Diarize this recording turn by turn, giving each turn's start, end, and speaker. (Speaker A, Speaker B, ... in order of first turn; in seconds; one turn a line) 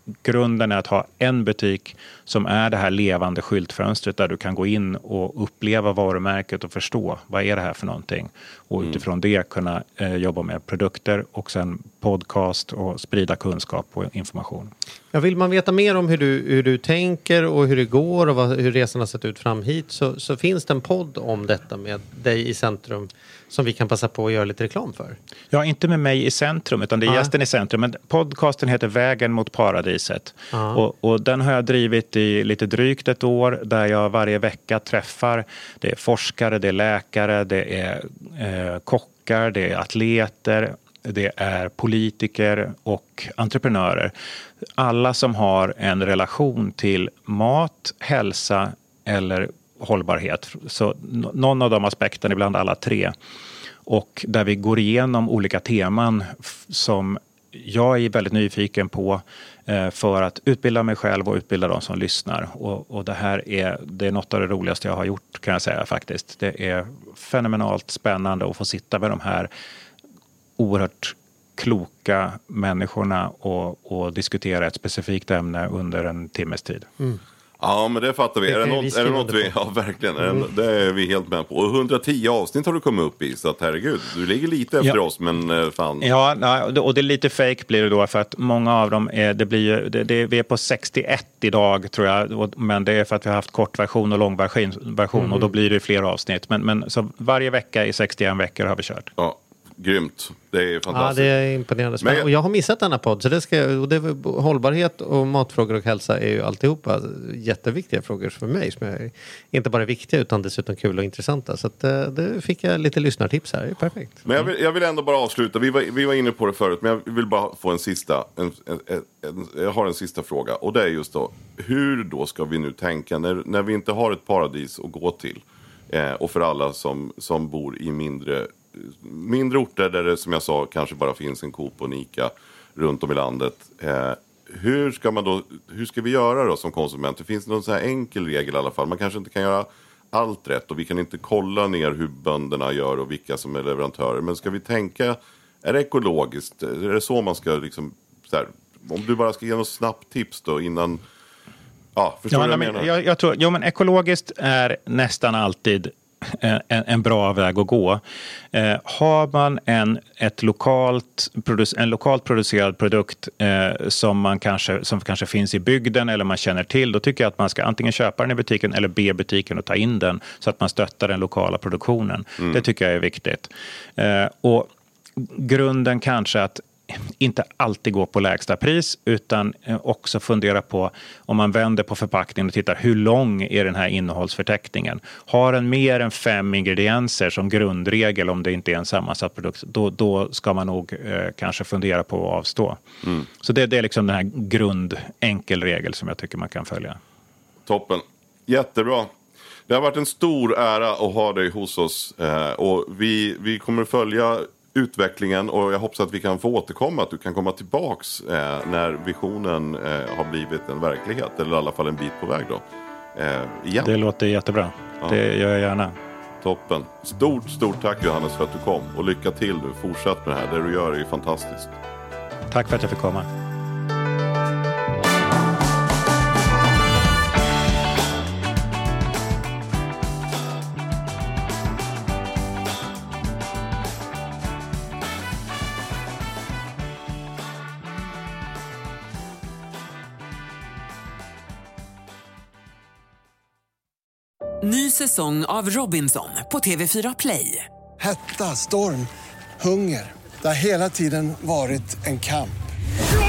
Speaker A: 0.2-14.7
Speaker B: 15.1-25.2
Speaker A: 25.5-44.1
Speaker B: 27.1-27.3
Speaker B: 30.5-30.8
Speaker A: 44.8-53.1
Speaker A: 53.9-69.5
Speaker A: 70.6-76.9
Speaker C: 77.6-86.1
Speaker B: 78.5-79.5
Speaker A: 86.0-99.1
Speaker B: 95.2-95.4
Speaker C: 99.2-101.3
Speaker B: 100.9-114.2
Speaker C: 102.0-102.3
Speaker C: 114.2-151.0
Speaker C: 151.9-152.9
Speaker A: 152.3-192.8
Speaker A: 193.3-197.0
Speaker C: 197.7-199.1
Speaker C: 199.7-212.6
Speaker C: 213.1-213.9
Speaker A: 213.8-215.9
Speaker C: 216.4-221.7
Speaker A: 222.5-223.3
Speaker D: 244.6-247.7
Speaker E: 248.0-252.6